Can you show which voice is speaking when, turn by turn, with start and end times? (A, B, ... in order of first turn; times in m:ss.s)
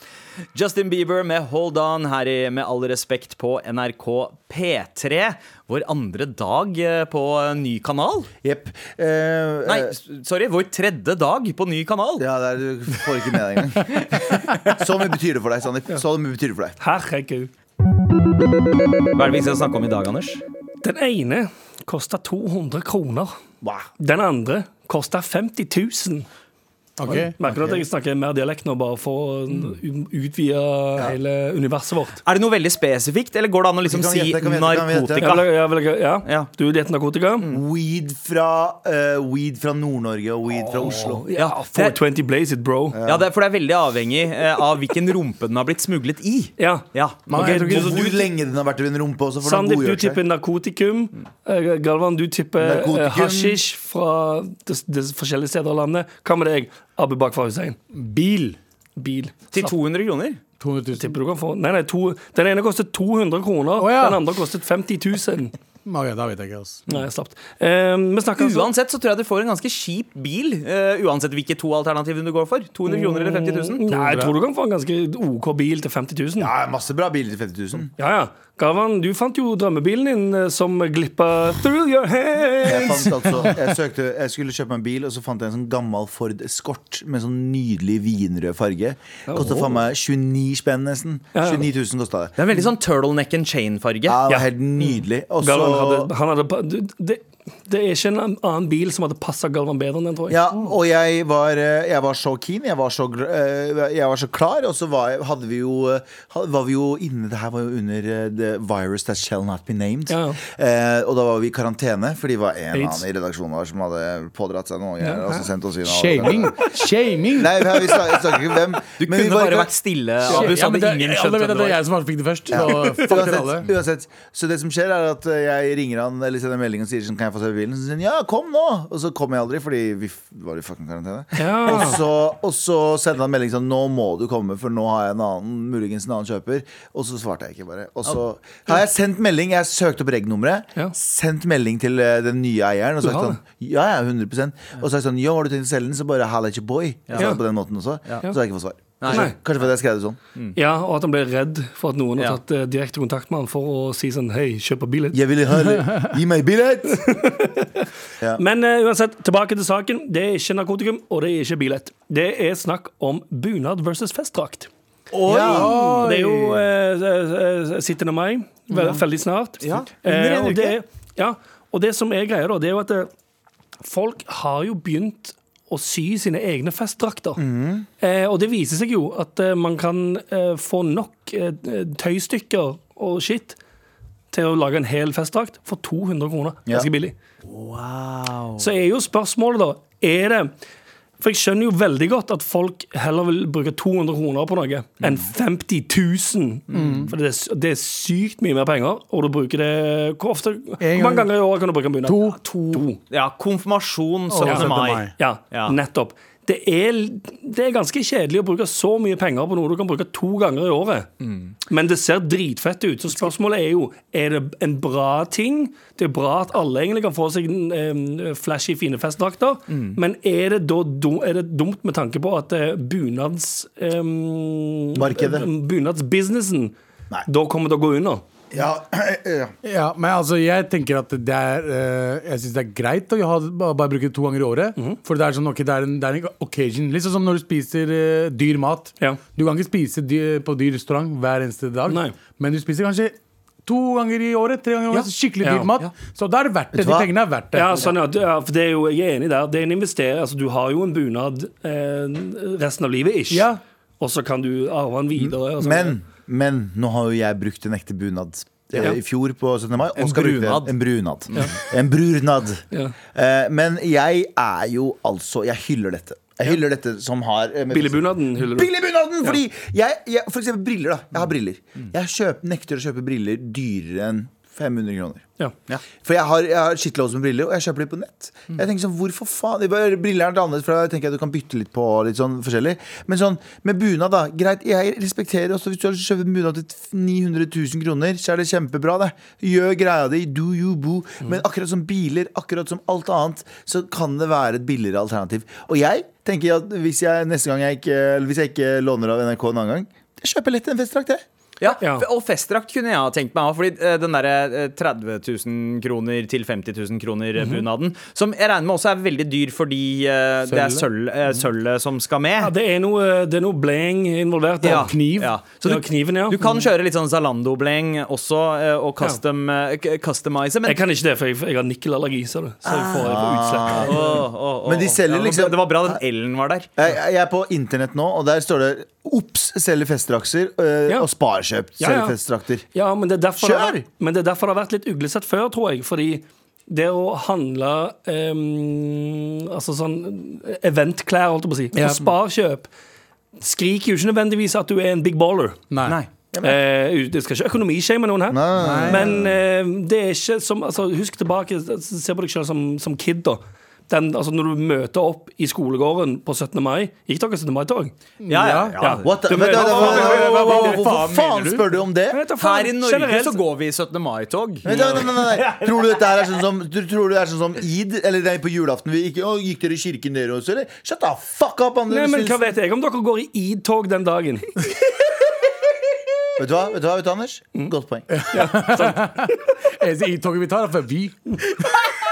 0:00.5-0:08.3 A
0:08.4-0:09.9 B
0:09.6-0:12.2 A
0:12.2-0:14.0 B
0:14.6-0:16.8 B
0:16.8-0:17.5 C
0:19.1-0:20.4 A
0:20.8-0:23.3 C
0:24.0-0:26.3 C
0:27.0-0:27.3 D
0:27.1-0:32.2 C
0:32.2-0:35.5 A
0:33.9-0:35.3 B
0:35.2-0:37.4 C
0:37.5-0:41.2 B
0:40.7-0:43.0 C
0:41.4-0:41.9 A
0:42.9-0:43.2 B
0:43.0-0:48.2 A
0:46.6-0:48.0 C
0:47.3-0:48.0 D
0:47.7-0:50.2 B
0:49.4-0:57.8 C
0:52.6-0:53.6 B
0:57.9-0:58.6 D
0:59.0-0:59.7 C
0:59.5-1:00.4 A
1:00.6-1:01.1 D
1:01.0-1:05.5 C
1:03.8-1:04.2 D
1:05.8-1:06.8 D
1:06.9-1:08.7 C
1:08.4-1:13.8 A
1:12.8-1:16.5 C
1:13.9-1:14.3 D
1:16.4-1:17.9 B
1:18.0-1:23.7 C
1:22.6-1:32.3 B
1:29.3-1:29.8 C
1:31.3-1:31.6 C
1:32.4-1:34.2 A
1:34.1-1:36.1 B
1:35.4-1:40.5 C
1:40.3-1:56.6 B
1:50.1-1:50.4 C
1:52.7-1:53.0 C
1:55.0-1:55.5 C
1:55.8-1:58.0 D
1:57.3-1:59.7 B
1:59.0-2:01.8 A
2:00.2-2:03.7 D
2:02.5-2:30.2 B
2:11.4-2:12.0 C
2:23.0-2:23.4 C
2:27.2-2:27.4 C
2:29.0-2:29.3 A
2:29.1-2:29.4 C
2:30.6-2:35.2 C
2:35.1-2:37.2 B
2:36.9-2:44.7 C
2:45.1-2:45.7 A
2:45.2-2:45.7 B
2:45.4-2:53.1 C
2:45.5-2:46.6 D
2:48.7-2:49.0 D
2:49.6-2:50.8 A
2:53.8-2:57.4 C
2:57.4-2:57.8 B
2:58.0-3:03.6 C
3:04.3-3:07.1 C
3:07.5-3:08.6 A
3:08.6-3:10.5 C
3:11.2-3:23.0 C
3:16.7-3:17.0 A
3:16.7-3:17.1 D
3:20.8-3:21.3 D
3:22.0-3:22.4 D
3:23.1-3:25.8 A
3:24.3-3:25.1 D
3:24.4-3:31.1 C
3:31.2-3:31.5 A
3:31.7-3:48.2 C
3:39.7-3:40.0 A
3:44.9-3:45.5 B
3:48.5-3:49.5 B
3:49.6-4:07.9 D
4:01.9-4:02.2 C
4:05.4-4:05.7 C
4:06.7-4:07.1 B
4:07.5-4:13.5 C
4:13.3-4:13.6 D
4:14.0-4:16.0 C
4:15.2-4:35.2 B
4:20.0-4:20.7 A
4:27.7-4:28.7 C
4:36.0-5:01.2 B
5:01.6-5:12.5 A
5:01.8-5:02.0 C
5:10.5-5:10.8 D
5:12.4-5:14.9 C
5:14.6-5:20.8 A
5:14.6-5:15.3 D
5:15.6-5:16.4 C
5:20.6-5:24.0 C
5:22.6-5:26.0 B
5:23.8-5:26.7 A
5:26.8-5:32.6 B
5:31.8-5:32.2 C
5:32.7-5:42.7 C
5:33.4-5:33.8 B
5:41.8-5:42.0 D
5:43.4-5:45.6 C
5:45.7-5:46.0 D
5:46.4-5:57.9 C
5:48.3-5:49.3 B
5:48.6-5:49.1 D
5:58.2-6:01.7 D
5:58.3-6:00.8 A
5:58.8-6:00.6 C
5:59.0-6:02.2 B
6:02.1-6:03.4 C
6:02.4-6:06.2 A
6:04.6-6:12.4 B
6:11.9-6:14.6 C
6:16.4-6:18.1 B
6:18.1-6:21.8 D
6:18.3-6:19.3 C